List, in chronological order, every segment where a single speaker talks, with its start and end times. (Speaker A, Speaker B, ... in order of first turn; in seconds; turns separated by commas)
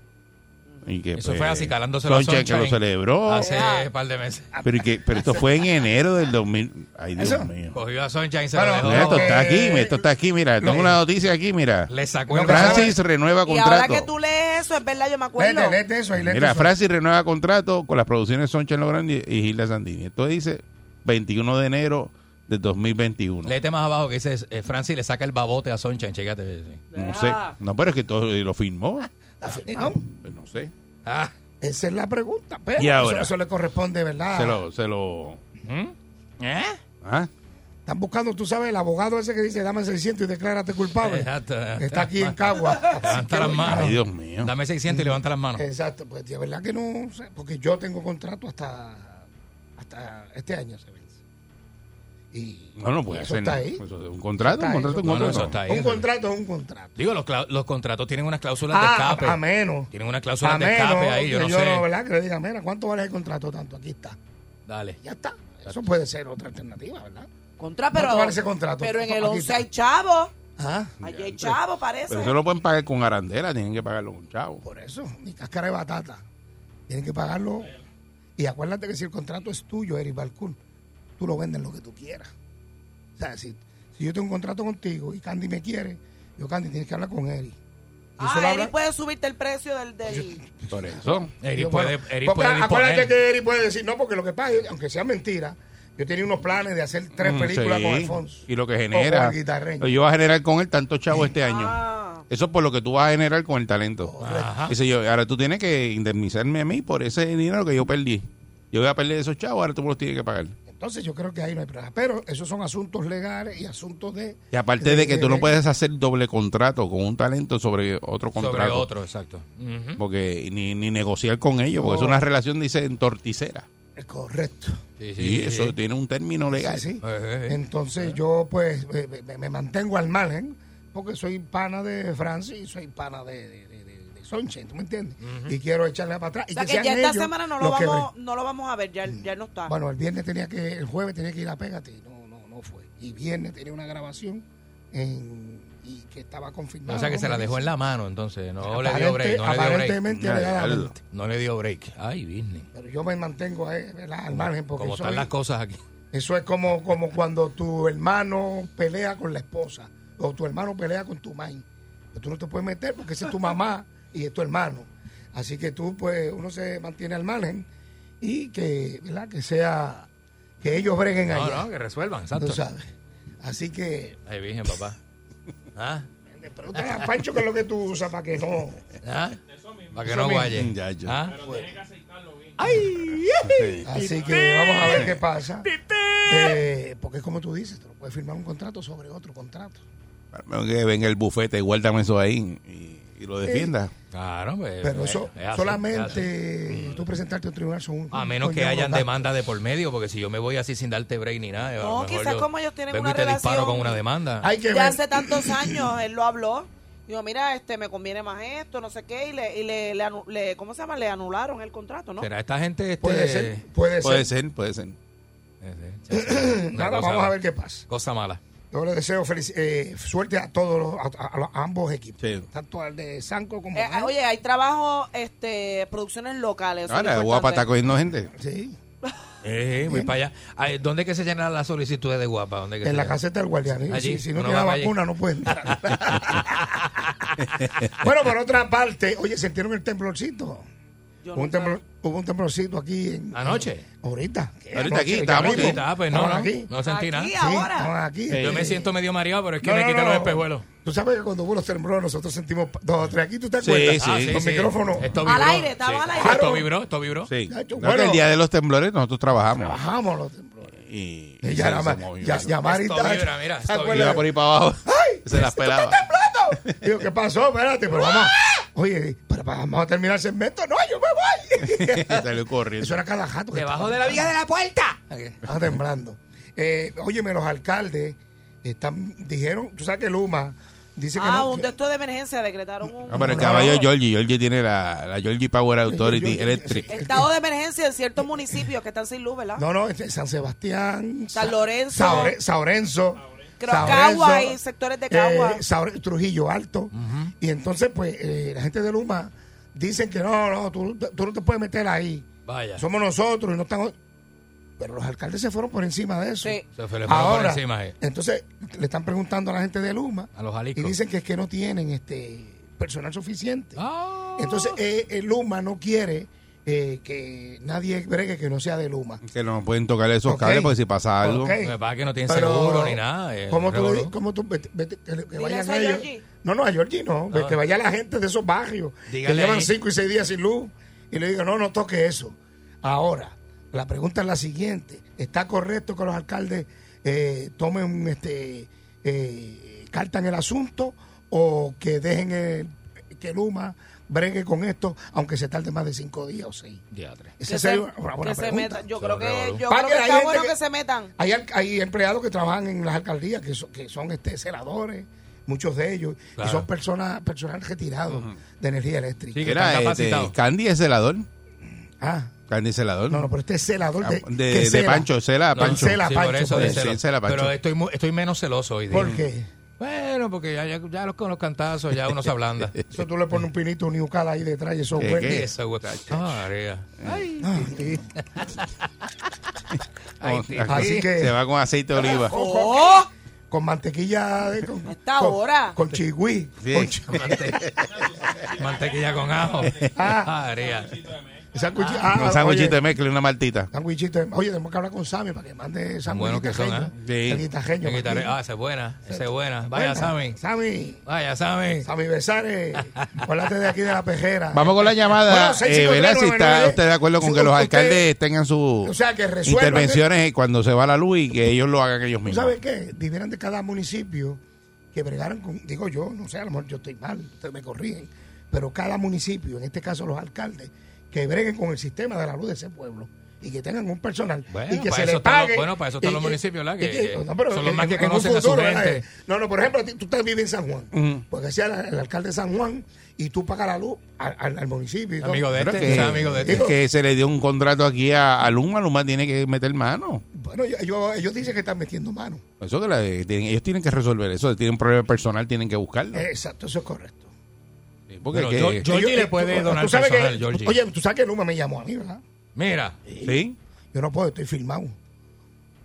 Speaker A: 0.8-3.5, Speaker B: 1.1-4.5, Speaker C: 3.5-3.8, Speaker D: 4.6-5.4, Speaker A: 4.6-7.8, Speaker D: 7.2-7.5, Speaker B: 7.7-9.3, Speaker D: 8.5-10.1, Speaker A: 8.8-11.9, Speaker D: 10.6-10.9, Speaker B: 11.9-12.9, Speaker D: 12.3-13.0, Speaker A: 12.4-14.1, Speaker C: 13.4-15.8, Speaker D: 15.4-16.7, Speaker A: 16.2-23.5, Speaker B: 23.4-26.9, Speaker C: 26.9-27.3, Speaker A: 26.9-29.1, Speaker D: 29.4-30.1, Speaker A: 30.2-30.7, Speaker B: 31.1-31.3, Speaker D: 31.6-34.6, Speaker A: 32.8-33.3, Speaker A: 34.3-35.4, Speaker B: 35.6-36.8, Speaker A: 37.0-37.3, Speaker D: 37.9-44.0, Speaker B: 41.0-45.6, Speaker A: 43.6-44.5, Speaker D: 44.9-49.2, Speaker D: 49.8-51.1, Speaker D: 52.3-53.8, Speaker A: 52.8-55.6, Speaker D: 54.4-57.0, Speaker B: 55.0-56.1, Speaker B: 57.0-59.4, Speaker D: 58.7-64.2, Speaker B: 59.9-61.9, Speaker B: 64.7-65.0, Speaker D: 65.0-67.3, Speaker C: 67.6-70.3, Speaker D: 67.9-69.7, Speaker D: 70.6-71.0, Speaker C: 71.0-72.4, Speaker A: 71.0-74.6, Speaker D: 74.6-76.2, Speaker D: 76.9-77.8, Speaker D: 78.4-80.6, Speaker D: 81.2-82.3, Speaker D: 83.2-87.6, Speaker D: 88.2-88.7, Speaker C: 88.2-90.4, Speaker D: 90.1-100.0, Speaker A: 90.7-91.3, Speaker B: 91.4-93.1, Speaker A: 97.2-104.1, Speaker C: 101.4-102.2, Speaker D: 104.0-104.5, Speaker B: 104.2-104.8, Speaker A: 104.6-110.6, Speaker D: 110.7-115.5, Speaker A: 114.5-118.9, Speaker B: 118.3-120.0, Speaker A: 120.0-123.7, Speaker D: 121.8-122.2, Speaker D: 124.0-124.8, Speaker B: 125.0-125.8, Speaker A: 125.2-126.8, Speaker D: 126.5-138.1, Speaker B: 127.0-128.1, Speaker B: 135.2-135.6, Speaker C: 136.6-139.7, Speaker D: 139.1-147.7, Speaker B: 146.9-150.0, Speaker D: 148.6-151.0, Speaker A: 150.1-150.9, Speaker B: 151.1-152.7, Speaker D: 152.7-155.3, Speaker B: 154.3-155.8, Speaker D: 156.1-167.7, Speaker D: 168.2-170.1, Speaker D: 170.6-171.7, Speaker B: 171.3-172.6, Speaker D: 172.3-172.9, Speaker D: 173.4-174.2, Speaker B: 174.3-175.0, Speaker B: 175.8-176.1, Speaker D: 176.3-178.8, Speaker B: 176.8-177.1, Speaker B: 179.0-179.4, Speaker B: 179.9-181.4, Speaker D: 180.0-180.6, Speaker A: 180.6-181.2, Speaker D: 181.3-181.8, Speaker B: 182.6-185.1, Speaker A: 183.4-183.8, Speaker D: 183.8-185.7, Speaker A: 184.8-185.2, Speaker B: 185.6-186.6, Speaker D: 186.2-189.8, Speaker A: 190.3-193.9, Speaker D: 193.4-193.7, Speaker B: 194.1-197.0, Speaker D: 194.8-199.3, Speaker B: 198.1-204.5, Speaker C: 201.8-204.0, Speaker D: 204.4-205.9, Speaker C: 204.7-212.3, Speaker B: 212.2-213.6, Speaker D: 213.0-214.3, Speaker A: 214.0-214.9, Speaker B: 215.6-217.3, Speaker D: 216.1-217.8, Speaker B: 217.9-218.4, Speaker D: 218.7-224.1, Speaker A: 222.2-222.5, Speaker C: 223.8-227.6, Speaker A: 226.9-228.3, Speaker D: 228.3-228.8, Speaker B: 229.4-233.2, Speaker D: 229.8-230.1, Speaker D: 232.8-236.7, Speaker B: 233.9-235.0, Speaker B: 236.3-237.0, Speaker D: 238.0-240.7, Speaker C: 241.2-241.8, Speaker D: 241.3-246.7, Speaker B: 243.3-243.8, Speaker A: 244.7-245.8, Speaker B: 245.3-247.3, Speaker C: 246.8-247.9, Speaker D: 247.4-248.9, Speaker A: 248.3-248.6, Speaker B: 248.4-250.7, Speaker D: 249.6-255.2, Speaker A: 253.6-254.4, Speaker B: 254.0-257.3, Speaker C: 255.2-256.7, Speaker D: 256.2-256.7, Speaker A: 257.3-259.8, Speaker D: 257.5-258.2, Speaker D: 259.6-260.7, Speaker A: 260.8-262.5, Speaker D: 261.4-272.2, Speaker B: 262.6-264.2, Speaker A: 263.9-266.0, Speaker A: 271.7-273.0, Speaker D: 272.8-274.3, Speaker B: 273.5-275.4, Speaker D: 275.4-281.7, Speaker C: 281.2-283.8, Speaker A: 283.1-286.9, Speaker D: 283.1-283.9, Speaker D: 285.9-287.3, Speaker C: 286.9-289.6, Speaker D: 288.2-288.6, Speaker D: 289.6-303.9, Speaker C: 291.3-292.3, Speaker C: 293.6-295.6, Speaker B: 296.9-297.3, Speaker B: 302.5-302.8, Speaker D: 304.8-313.8, Speaker B: 306.7-307.9, Speaker B: 310.4-310.9, Speaker B: 313.8-314.8, Speaker D: 314.4-319.2, Speaker A: 319.2-321.5, Speaker D: 320.2-346.8, Speaker B: 321.6-324.1, Speaker C: 325.4-326.2, Speaker B: 327.3-327.6, Speaker B: 329.1-329.7, Speaker B: 346.9-347.3, Speaker D: 347.4-348.9, Speaker C: 347.5-351.1, Speaker B: 349.0-349.6, Speaker D: 349.7-350.6, Speaker D: 351.2-359.5, Speaker B: 356.4-356.7, Speaker B: 359.3-360.3, Speaker A: 359.4-361.3, Speaker D: 362.0-362.4, Speaker A: 362.5-363.3, Speaker D: 363.1-366.8, Speaker A: 364.0-367.6, Speaker B: 365.5-369.1, Speaker D: 368.9-369.5, Speaker B: 369.8-372.7, Speaker D: 372.9-375.5, Speaker A: 375.0-376.4, Speaker B: 375.1-378.7, Speaker A: 377.0-377.3, Speaker D: 377.4-378.0, Speaker B: 380.2-381.0, Speaker A: 380.2-382.3, Speaker D: 380.7-381.4, Speaker D: 382.0-387.4, Speaker C: 382.3-383.1, Speaker C: 384.9-385.8, Speaker A: 386.6-388.0, Speaker B: 387.1-387.6, Speaker B: 388.5-391.0, Speaker D: 389.9-390.3, Speaker D: 391.5-392.8, Speaker B: 391.8-392.1, Speaker A: 392.1-393.7, Speaker D: 393.7-398.4, Speaker B: 396.1-396.9, Speaker A: 397.0-397.4, Speaker B: 397.8-400.4, Speaker D: 399.1-401.1, Speaker B: 401.1-401.9, Speaker D: 401.8-408.1, Speaker A: 404.5-408.9, Speaker D: 408.8-410.0, Speaker A: 409.4-412.5, Speaker D: 412.2-414.4, Speaker D: 414.9-436.8, Speaker B: 424.5-429.1, Speaker A: 430.9-431.2, Speaker B: 435.2-436.7, Speaker A: 435.6-440.2, Speaker D: 440.3-442.4, Speaker A: 442.6-446.2, Speaker D: 446.1-447.3, Speaker A: 448.1-448.9, Speaker B: 448.3-450.8, Speaker D: 448.8-452.2, Speaker B: 452.6-453.0, Speaker D: 453.1-453.4, Speaker A: 453.2-453.6, Speaker D: 453.9-454.9